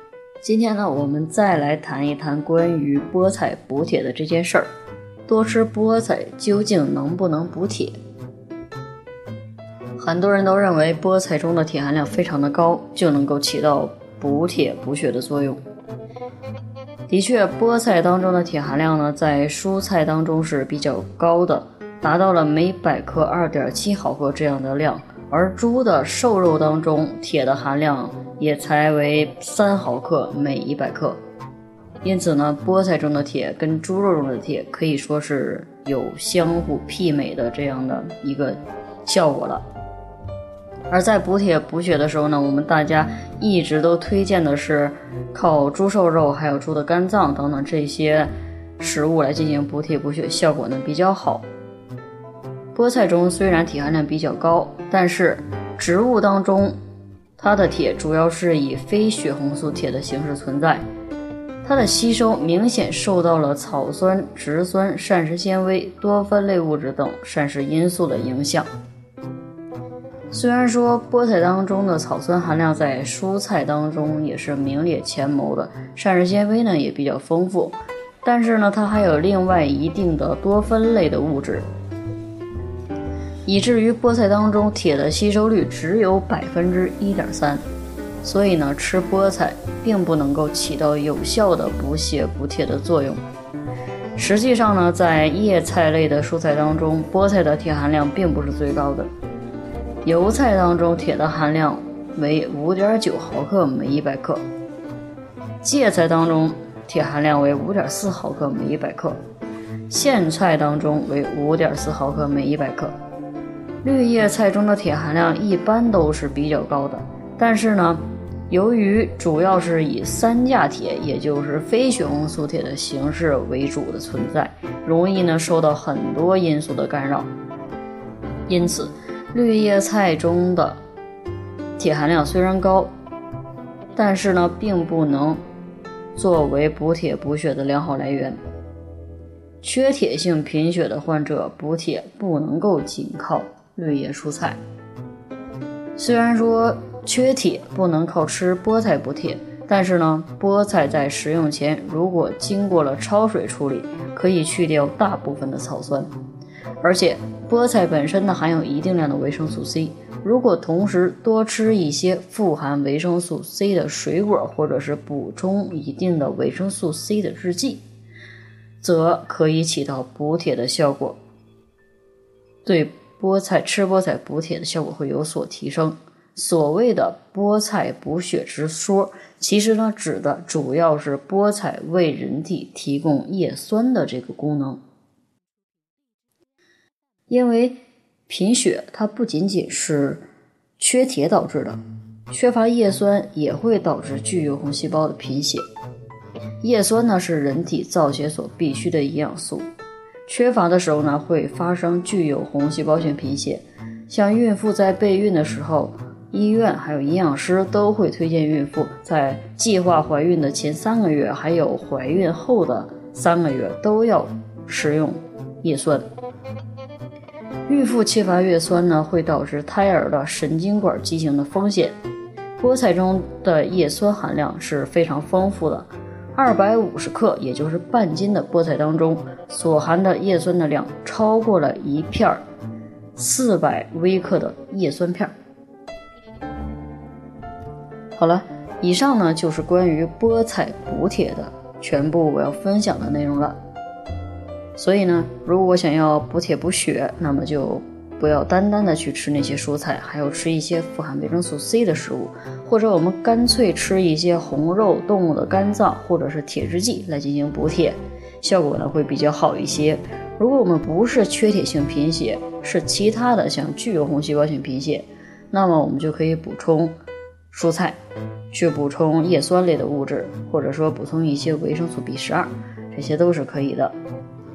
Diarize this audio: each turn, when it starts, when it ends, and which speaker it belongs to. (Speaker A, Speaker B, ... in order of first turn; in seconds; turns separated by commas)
Speaker A: 0.4-4.7, Speaker A: 5.3-8.0, Speaker A: 10.0-15.6, Speaker A: 17.1-31.2, Speaker A: 32.0-39.6, Speaker A: 40.9-51.5, Speaker A: 52.7-56.8, Speaker A: 57.4-60.9, Speaker A: 61.6-68.7, Speaker A: 70.3-81.7, Speaker A: 83.5-87.6, Speaker A: 88.2-93.2, Speaker A: 94.2-99.1, Speaker A: 100.0-104.4, Speaker A: 105.6-109.2, Speaker A: 109.9-112.9, Speaker A: 113.8-127.3, Speaker A: 128.5-130.8, Speaker A: 131.8-132.9, Speaker A: 134.0-135.4, Speaker A: 136.2-138.4, Speaker A: 139.6-144.6, Speaker A: 146.0-156.1, Speaker A: 156.8-167.8, Speaker A: 168.8-171.2, Speaker A: 172.7-184.8, Speaker A: 187.3-190.2, Speaker A: 190.8-191.8, Speaker A: 192.3-195.6, Speaker A: 196.6-199.7, Speaker A: 200.3-216.1, Speaker A: 217.7-222.0, Speaker A: 222.6-232.4, Speaker A: 233.2-235.3, Speaker A: 238.2-243.6, Speaker A: 244.8-266.9, Speaker A: 267.5-268.0, Speaker A: 268.5-273.9